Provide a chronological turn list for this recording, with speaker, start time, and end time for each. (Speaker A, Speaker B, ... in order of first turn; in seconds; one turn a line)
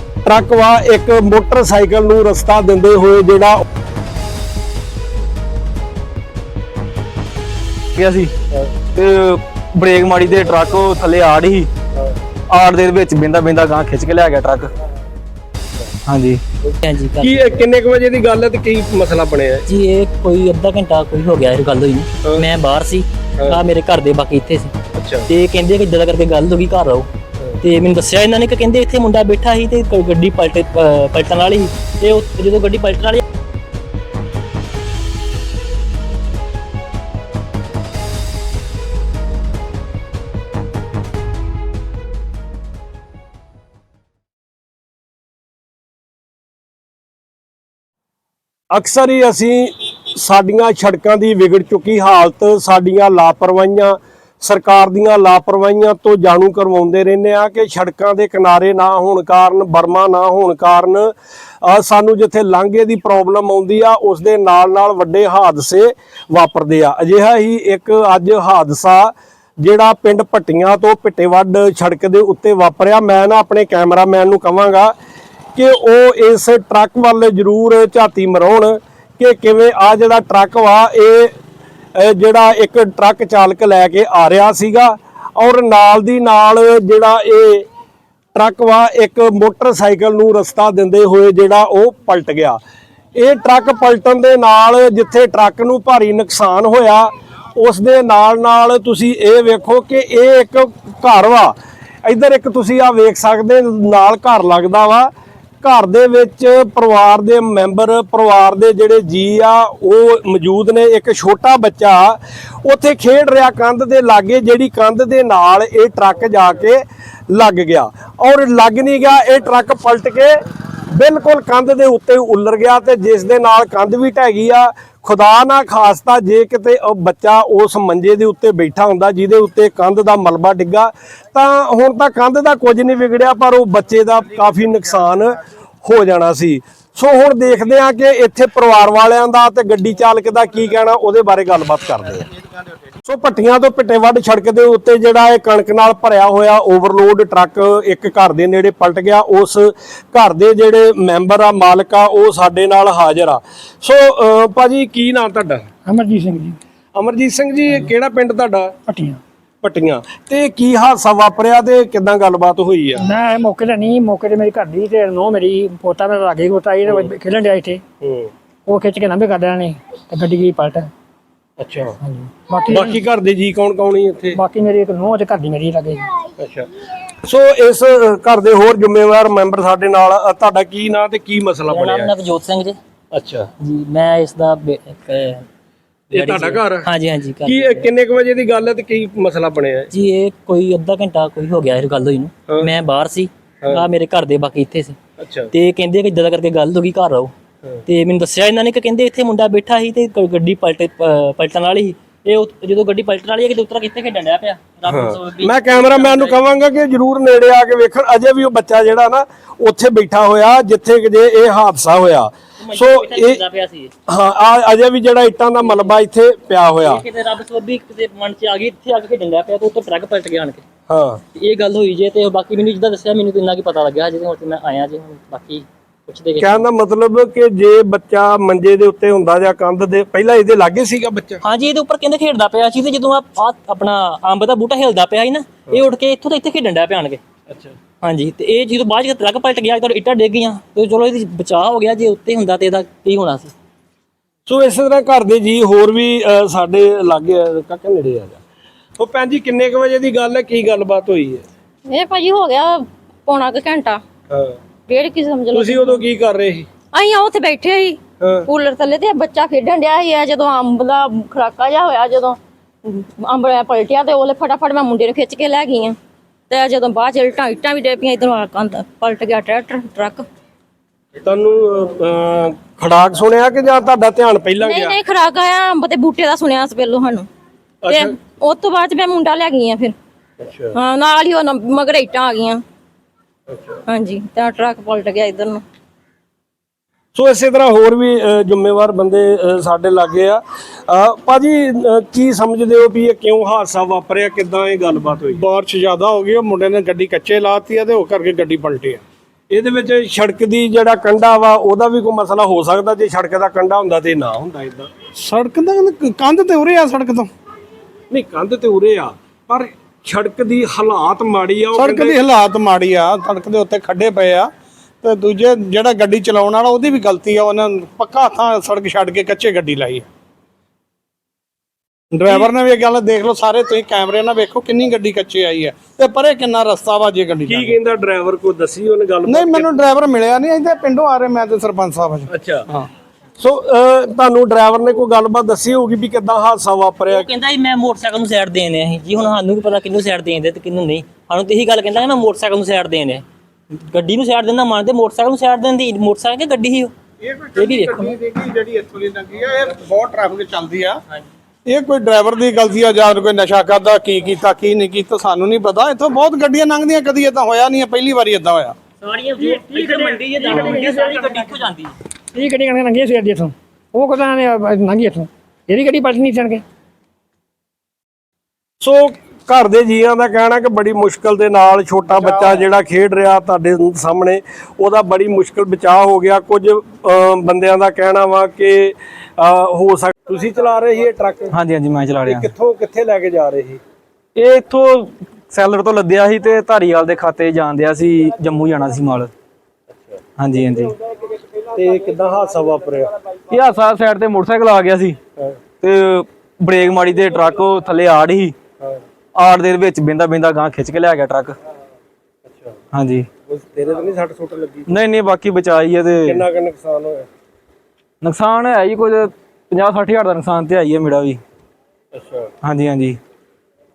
Speaker A: 0.2-3.6
Speaker B: 8.0-8.3
Speaker B: 8.9-11.7
Speaker B: 12.5-14.7
Speaker B: 16.1-16.4
Speaker C: 16.8-17.3
Speaker A: 17.2-19.6
Speaker C: 19.7-24.7
Speaker A: 24.9-25.3
Speaker C: 25.3-27.1
Speaker C: 27.6-33.2
Speaker A: 48.7-61.1
Speaker A: 61.6-74.9
Speaker A: 75.5-81.3
Speaker A: 81.9-87.7
Speaker A: 88.3-92.6
Speaker A: 93.2-105.1
Speaker A: 105.6-120.3
Speaker A: 120.9-142.3
Speaker A: 143.0-155.7
Speaker D: 155.8-156.6
Speaker A: 156.9-158.7
Speaker D: 158.9-159.2
Speaker A: 159.6-163.1
Speaker D: 162.9-167.8
Speaker A: 168.0-168.3
Speaker D: 168.7-170.9
Speaker A: 171.6-171.9
Speaker D: 172.0-173.0
Speaker A: 172.7-174.4
Speaker D: 174.3-176.1
Speaker A: 176.4-182.1
Speaker C: 181.7-182.8
Speaker A: 183.1-183.5
Speaker C: 183.6-185.4
Speaker A: 186.1-186.9
Speaker C: 186.1-187.9
Speaker A: 187.4-189.9
Speaker C: 189.9-195.0
Speaker A: 195.2-195.5
Speaker C: 195.5-197.3
Speaker C: 197.9-206.4
Speaker A: 204.9-213.4
Speaker C: 212.6-213.9
Speaker A: 214.1-217.0
Speaker C: 215.6-215.9
Speaker C: 216.8-220.6
Speaker A: 220.9-221.2
Speaker C: 221.3-226.7
Speaker A: 226.4-231.4
Speaker C: 231.4-237.2
Speaker A: 237.5-237.7
Speaker C: 238.0-243.5
Speaker A: 244.5-248.4
Speaker A: 249.0-251.4
Speaker E: 251.8-254.0
Speaker A: 254.3-254.6
Speaker E: 254.9-256.0
Speaker A: 255.5-256.7
Speaker E: 256.9-266.0
Speaker A: 258.2-258.5
Speaker E: 266.5-270.2
Speaker A: 271.2-275.0
Speaker E: 274.6-277.3
Speaker A: 277.8-278.1
Speaker E: 277.9-279.9
Speaker A: 280.4-280.8
Speaker E: 280.7-282.6
Speaker A: 283.5-283.8
Speaker E: 283.9-285.6
Speaker A: 287.1-295.4
Speaker F: 295.3-299.0
Speaker A: 299.5-304.9
Speaker F: 305.1-307.3
Speaker A: 308.1-312.2
Speaker F: 311.7-314.5
Speaker F: 315.0-320.1
Speaker F: 322.1-327.7
Speaker A: 327.4-329.8
Speaker F: 329.2-332.9
Speaker A: 332.3-332.7
Speaker A: 333.4-337.3
Speaker C: 337.1-343.2
Speaker C: 343.9-346.9
Speaker F: 347.2-351.0
Speaker C: 347.6-348.2
Speaker F: 351.6-358.8
Speaker C: 359.0-361.9
Speaker D: 359.4-361.5
Speaker D: 362.3-366.6
Speaker A: 368.8-381.5
Speaker F: 372.1-372.6
Speaker B: 381.5-382.5
Speaker A: 382.2-383.8
Speaker B: 384.4-389.3
Speaker B: 390.4-390.9
Speaker A: 391.6-393.2
Speaker B: 393.5-395.2
Speaker B: 395.8-398.5
Speaker B: 399.3-401.6
Speaker A: 402.5-402.8
Speaker B: 402.9-403.3
Speaker A: 403.5-404.9
Speaker B: 404.9-406.4
Speaker A: 406.2-407.3
Speaker B: 408.2-411.4
Speaker A: 412.1-412.5
Speaker B: 412.6-413.2